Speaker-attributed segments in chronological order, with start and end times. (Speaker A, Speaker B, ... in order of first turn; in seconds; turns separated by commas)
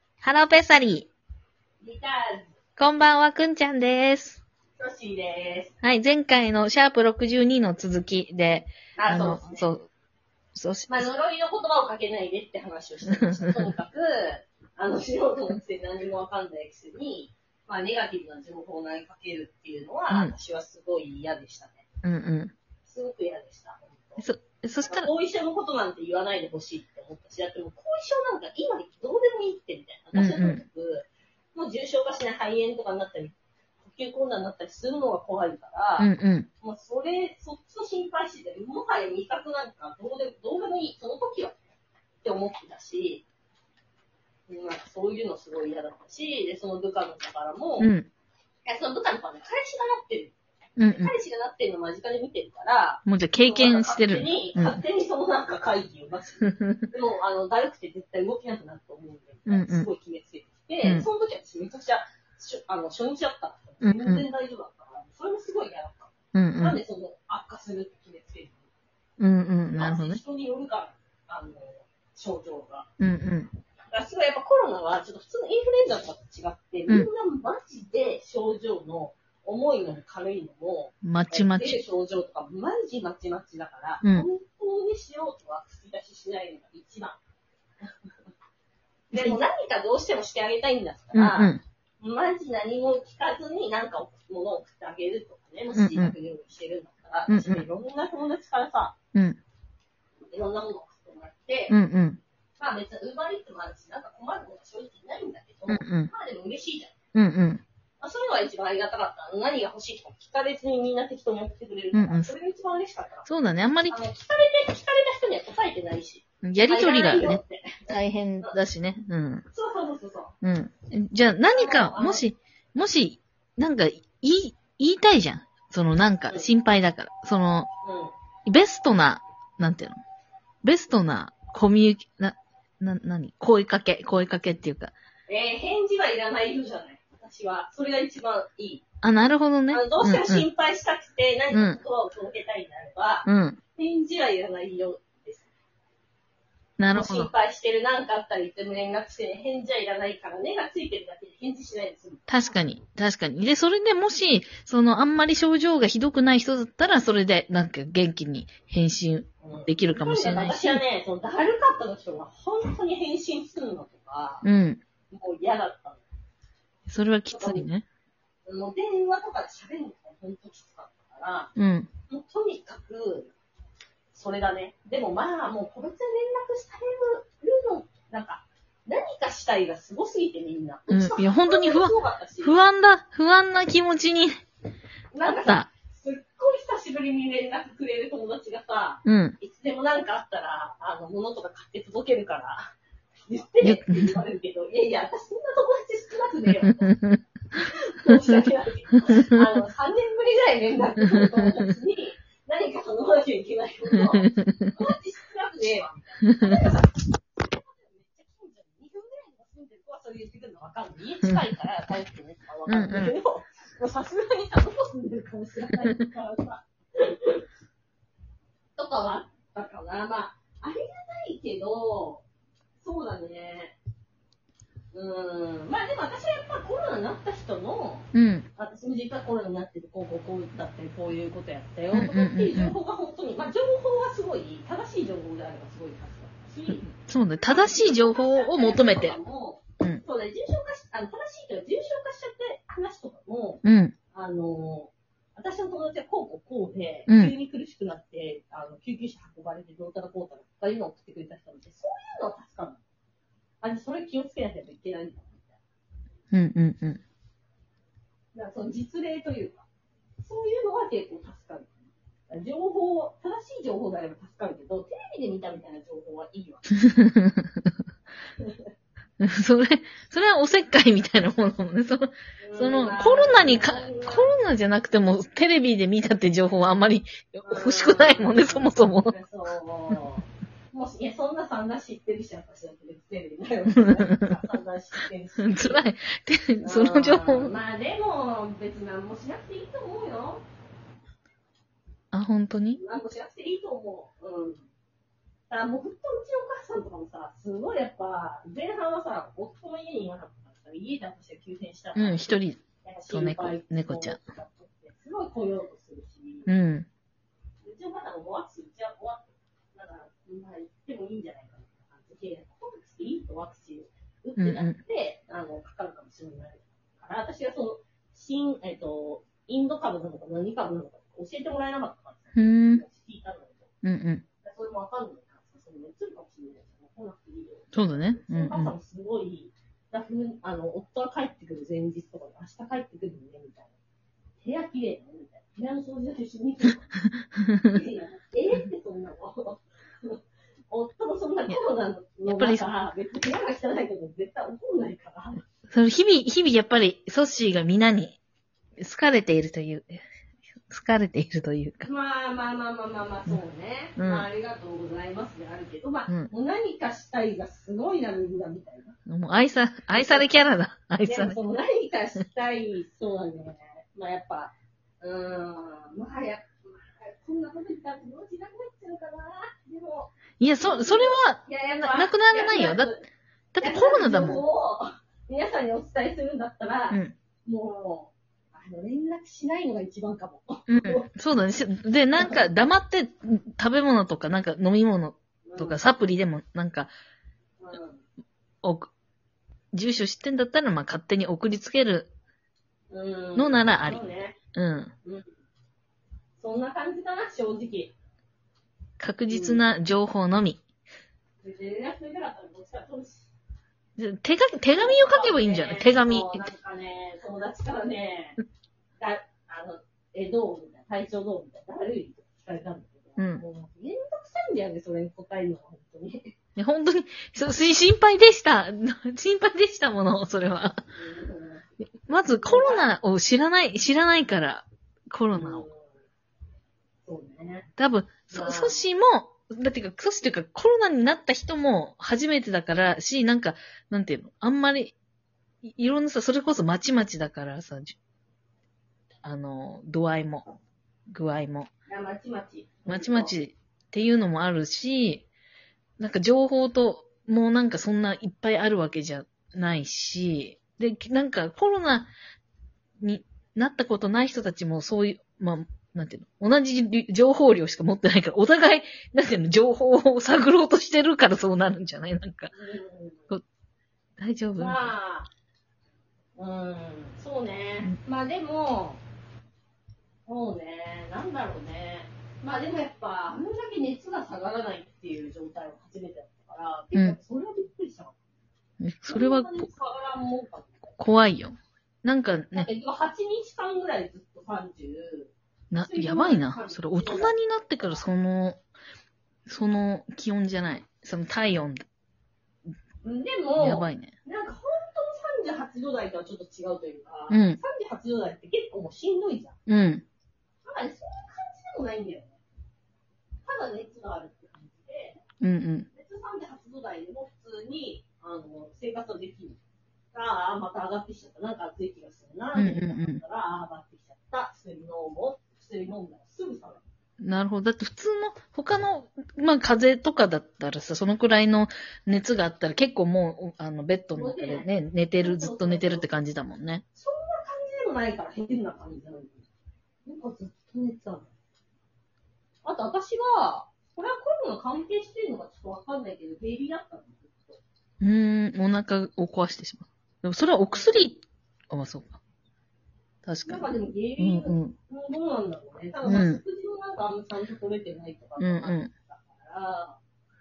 Speaker A: 0.2-1.1, Speaker B: 1.8-2.5, Speaker A: 2.8-4.4, Speaker B: 4.8-5.7, Speaker A: 5.8-9.9, Speaker B: 9.0-9.7, Speaker A: 10.6-11.1, Speaker B: 10.9-21.8, Speaker A: 13.1-13.7, Speaker A: 22.0-22.5, Speaker B: 22.9-24.3, Speaker A: 24.2-25.1, Speaker B: 24.8-36.1, Speaker A: 30.1-30.6, Speaker A: 36.0-36.5, Speaker B: 36.6-41.6, Speaker B: 42.2-43.2, Speaker B: 44.5-47.9, Speaker A: 47.8-48.1, Speaker B: 48.6-68.7, Speaker A: 50.8-51.1, Speaker A: 53.1-54.8, Speaker A: 56.5-56.9, Speaker A: 59.5-59.9, Speaker A: 63.8-64.2, Speaker A: 66.3-66.8, Speaker A: 69.2-70.2, Speaker B: 69.8-72.9, Speaker A: 73.0-73.5, Speaker B: 73.9-87.2, Speaker A: 81.0-81.8, Speaker B: 89.1-99.0, Speaker A: 89.1-89.5, Speaker A: 91.1-91.6, Speaker A: 95.7-96.1, Speaker A: 97.3-97.7, Speaker A: 99.2-99.4, Speaker B: 100.3-101.8, Speaker A: 101.7-102.2, Speaker B: 102.6-107.0, Speaker A: 105.7-106.1, Speaker A: 107.2-107.6, Speaker B: 108.0-113.3, Speaker A: 111.9-112.3, Speaker A: 113.3-114.0, Speaker B: 113.9-117.8, Speaker A: 116.4-119.5, Speaker B: 119.5-120.3, Speaker A: 120.4-127.7, Speaker B: 121.5-122.3, Speaker B: 127.8-128.1, Speaker A: 128.5-130.0, Speaker A: 130.6-134.9, Speaker B: 135.3-138.8, Speaker A: 139.0-140.5, Speaker B: 139.7-145.5, Speaker A: 141.5-141.8, Speaker A: 143.2-143.6, Speaker A: 146.8-147.3, Speaker B: 146.9-152.6, Speaker A: 152.3-160.8, Speaker B: 159.4-164.4, Speaker A: 164.4-164.8, Speaker B: 165.1-166.0, Speaker A: 166.9-167.8, Speaker B: 167.3-167.7, Speaker B: 168.5-171.5, Speaker A: 171.6-171.9, Speaker B: 172.1-173.3, Speaker B: 174.1-182.6, Speaker A: 180.9-184.4, Speaker B: 185.1-192.7, Speaker A: 185.2-185.7, Speaker A: 189.1-189.4, Speaker B: 193.3-196.9, Speaker A: 193.6-194.2, Speaker A: 196.7-197.2, Speaker B: 197.5-217.5, Speaker A: 204.0-204.8, Speaker A: 206.3-206.6, Speaker A: 212.7-213.1, Speaker B: 218.8-222.2, Speaker B: 222.8-223.8, Speaker B: 224.9-252.8, Speaker A: 228.1-228.5, Speaker A: 231.9-232.8, Speaker A: 236.9-239.2, Speaker A: 243.6-243.9, Speaker A: 247.1-247.3, Speaker B: 253.6-255.6, Speaker A: 256.3-257.0, Speaker B: 258.4-259.7, Speaker B: 260.2-261.8, Speaker B: 262.3-266.7, Speaker A: 266.9-267.7, Speaker B: 268.4-268.7, Speaker A: 269.2-279.1, Speaker B: 272.4-274.3, Speaker B: 277.4-285.8, Speaker A: 283.8-284.3, Speaker A: 285.4-287.5, Speaker B: 286.6-290.4, Speaker A: 292.1-292.8, Speaker B: 292.7-294.7, Speaker B: 295.5-302.3, Speaker A: 301.9-304.2, Speaker B: 302.8-306.5, Speaker A: 306.5-306.9, Speaker B: 307.6-323.7, Speaker A: 314.4-314.8, Speaker A: 322.4-322.8, Speaker A: 323.8-324.2, Speaker B: 324.4-333.7, Speaker A: 327.7-328.7, Speaker B: 334.4-336.9, Speaker B: 337.7-345.4, Speaker A: 342.3-342.6, Speaker A: 345.7-348.2, Speaker A: 348.8-350.0, Speaker A: 350.7-351.9, Speaker B: 351.8-359.0, Speaker A: 354.0-354.3, Speaker A: 359.1-361.4, Speaker B: 359.9-360.4, Speaker B: 361.1-373.1, Speaker A: 370.4-372.9, Speaker A: 373.5-374.4, Speaker B: 373.6-381.1, Speaker A: 376.9-377.1, Speaker A: 380.7-386.9, Speaker B: 382.2-382.4, Speaker B: 385.4-386.0, Speaker B: 387.6-388.0, Speaker A: 388.6-388.9, Speaker A: 389.7-392.1, Speaker B: 392.9-394.4, Speaker A: 393.4-394.0, Speaker A: 394.5-394.9, Speaker B: 395.0-395.3, Speaker B: 396.4-397.9, Speaker A: 399.0-400.6, Speaker B: 399.3-399.7, Speaker B: 401.4-403.3, Speaker A: 404.0-406.5, Speaker B: 404.7-408.4, Speaker B: 409.0-416.3, Speaker A: 413.2-413.4, Speaker A: 416.6-420.8, Speaker B: 421.0-421.7, Speaker A: 422.1-425.6, Speaker B: 422.3-422.9, Speaker B: 425.3-425.9, Speaker B: 427.1-427.7, Speaker A: 427.8-434.9, Speaker B: 428.3-428.8, Speaker A: 435.6-438.0, Speaker A: 439.2-440.5, Speaker A: 441.1-441.7, Speaker B: 441.9-443.4, Speaker A: 442.9-445.3, Speaker A: 446.0-452.1, Speaker A: 453.0-462.5, Speaker B: 462.5-463.3, Speaker A: 464.2-464.9, Speaker B: 464.6-465.3, Speaker B: 466.4-469.0, Speaker B: 470.3-478.1, Speaker A: 478.8-479.7, Speaker B: 479.1-481.0, Speaker A: 481.0-482.7, Speaker B: 482.5-488.0, Speaker A: 485.7-488.6, Speaker A: 489.5-491.9, Speaker B: 493.0-499.6, Speaker A: 493.6-494.1, Speaker A: 497.3-497.6, Speaker A: 499.7-500.0, Speaker B: 500.6-502.4, Speaker B: 503.4-505.2, Speaker A: 505.4-505.9, Speaker B: 505.9-509.6, Speaker B: 510.1-516.8, Speaker A: 512.5-513.2, Speaker A: 517.2-526.8, Speaker B: 524.1-524.7, Speaker B: 525.2-526.1, Speaker B: 526.9-529.5, Speaker B: 530.0-531.3, Speaker B: 532.6-537.6, Speaker A: 538.0-542.2, Speaker B: 540.7-541.0, Speaker A: 543.2-544.8, Speaker B: 543.4-550.0, Speaker A: 546.0-546.4, Speaker A: 548.4-548.9